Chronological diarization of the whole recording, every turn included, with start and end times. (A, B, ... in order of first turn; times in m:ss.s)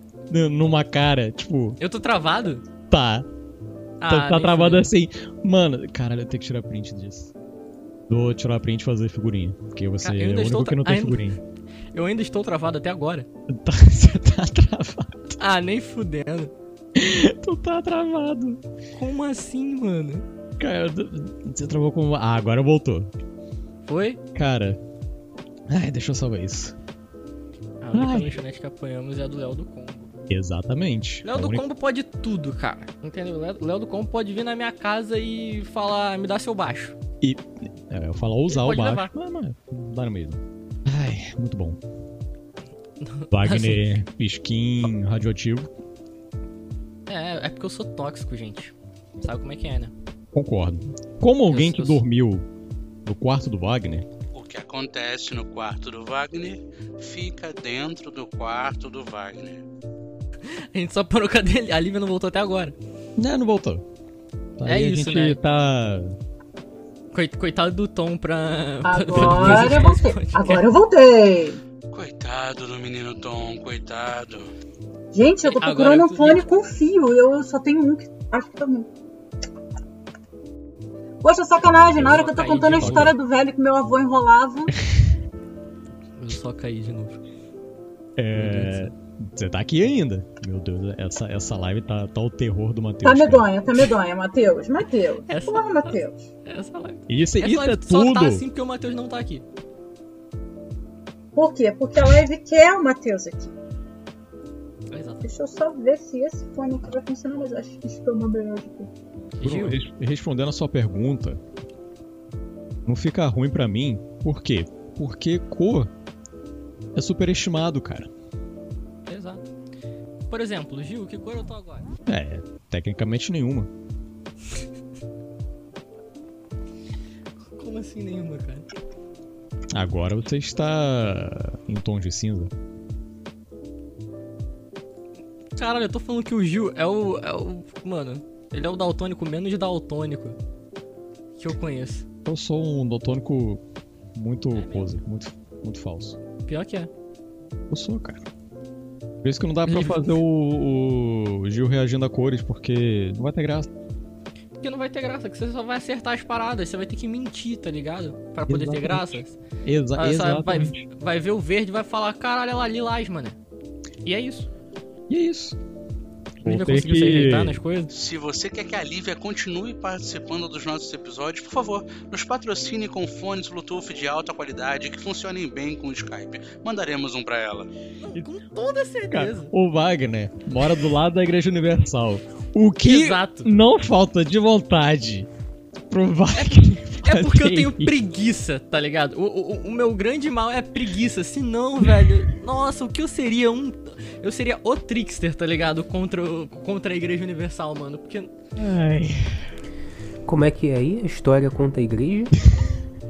0:00.3-0:01.8 A
0:01.8-0:02.6 B
0:02.9-0:03.3 A
0:04.0-0:04.9 B
0:04.1-0:07.3 A
0:08.1-0:11.4 A
0:10.0-0:11.4 B
0:11.9-0:13.3 B
0:13.5-0:15.4 A
0:15.4-0:16.5 B
0:16.9-0:18.6 A
0:18.9-0:20.2 B
0:20.6-0:23.1 A
0:23.8-0:24.2 B
0:24.3-0:24.8 A
0:25.7-0:26.8 A
0:27.8-0:30.1 B
0:27.9-0:28.3 A
0:30.3-0:31.6 A
0:31.2-0:36.9 B
0:37.2-0:41.8 A
0:38.5-0:39.1 B
0:43.0-0:43.9 B
0:43.3-0:45.7 A
0:47.1-0:49.9 B
0:50.3-0:52.4 A
0:51.5-0:52.0 B
0:53.0-0:54.1 A
0:54.3-0:59.6 C
1:00.5-1:02.8 B
1:03.2-1:03.8 A
1:04.6-1:06.2 A
1:04.6-1:05.4 B
1:07.1-1:10.7 B
1:08.8-1:11.6 D
1:09.1-1:09.8 A
1:11.9-1:14.5 C
1:15.1-1:18.9 D
1:15.4-1:16.5 B
1:21.2-1:24.7 D
1:21.6-1:22.2 A
1:22.0-1:23.2 B
1:22.8-1:23.1 A
1:26.2-1:27.2 B
1:28.2-1:33.5 A
1:28.3-1:28.9 B
1:33.0-1:36.2 D
1:35.3-1:39.4 B
1:37.1-1:38.4 A
1:41.3-1:43.5 D
1:44.9-1:45.3 B
1:45.2-1:48.9 D
1:49.4-1:49.8 B
1:49.4-1:51.4 A
1:52.8-1:55.9 A
1:56.9-1:58.1 A
1:59.1-1:59.5 B
2:00.3-2:01.9 B
2:02.1-2:03.7 A
2:07.5-2:08.7 B
2:09.7-2:12.5 A
2:15.6-2:20.4 B
2:21.4-2:22.0 B
2:22.2-2:23.6 A
2:24.1-2:26.2 A
2:24.6-2:24.9 B
2:26.4-2:26.9 B
2:27.7-2:28.2 A
2:29.2-2:33.7 A
2:29.6-2:30.2 B
2:34.6-2:39.4 B
2:38.5-2:40.8 A
2:40.0-2:43.4 B
2:44.0-2:44.5 B
2:45.1-2:45.6 A
2:46.4-2:47.6 A
2:46.4-2:47.9 B
2:47.9-2:57.7 C
2:58.0-2:59.5 B
2:59.1-3:05.3 A
3:02.8-3:03.5 B
3:05.9-3:07.9 A
3:06.3-3:18.3 B
3:18.6-3:19.4 A
3:20.2-3:22.3 E